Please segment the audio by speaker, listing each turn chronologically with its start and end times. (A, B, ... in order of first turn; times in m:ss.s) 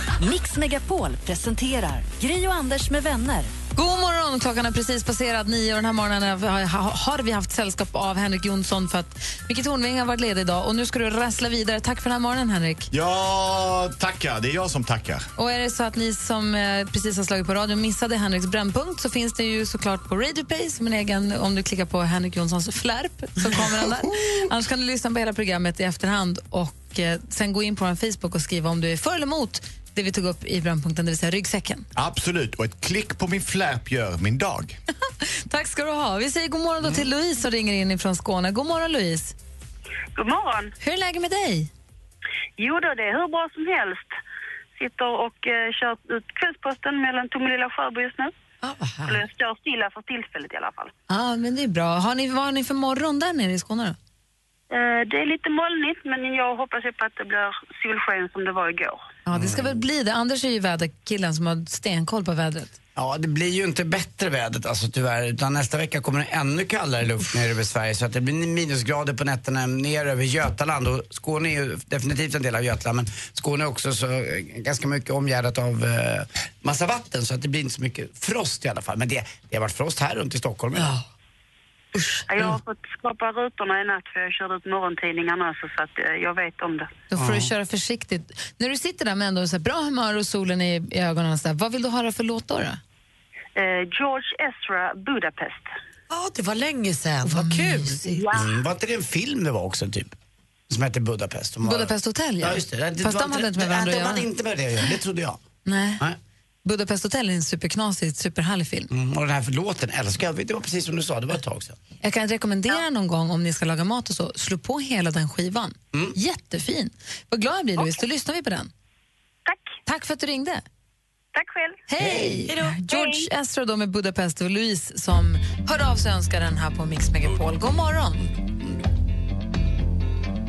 0:00.2-0:03.5 A
0:03.8-0:12.9 B
0:12.9-0:15.3 C
0:15.4-0:31.8 B
0:32.0-0:34.8 C
0:35.2-0:39.3 B
0:40.1-0:40.7 D
0:40.8-0:41.7 B
0:42.6-0:44.1 D
0:44.8-0:48.3 D
0:48.6-0:49.2 E
0:49.0-0:50.9 D
0:51.1-0:54.0 B
0:54.7-0:59.0 D
0:59.2-1:02.8 B
0:59.3-0:59.8 F
1:03.0-1:20.9 F
1:20.7-1:21.0 E
1:21.9-1:22.6 E
1:22.3-1:26.9 D
1:27.1-1:32.8 B
1:27.2-1:27.5 F
1:33.5-1:35.7 D
1:36.1-1:38.1 E
1:37.2-1:38.2 B
1:38.2-1:38.5 D
1:38.3-1:40.2 F
1:40.7-1:45.4 F
1:41.6-1:44.3 B
1:45.6-1:46.0 B
1:46.6-1:48.9 B
1:48.9-1:51.8 F
1:52.0-1:58.7 B
1:59.8-2:00.6 B
2:01.3-2:01.8 D
2:01.9-2:08.3 B
2:02.0-2:02.7 E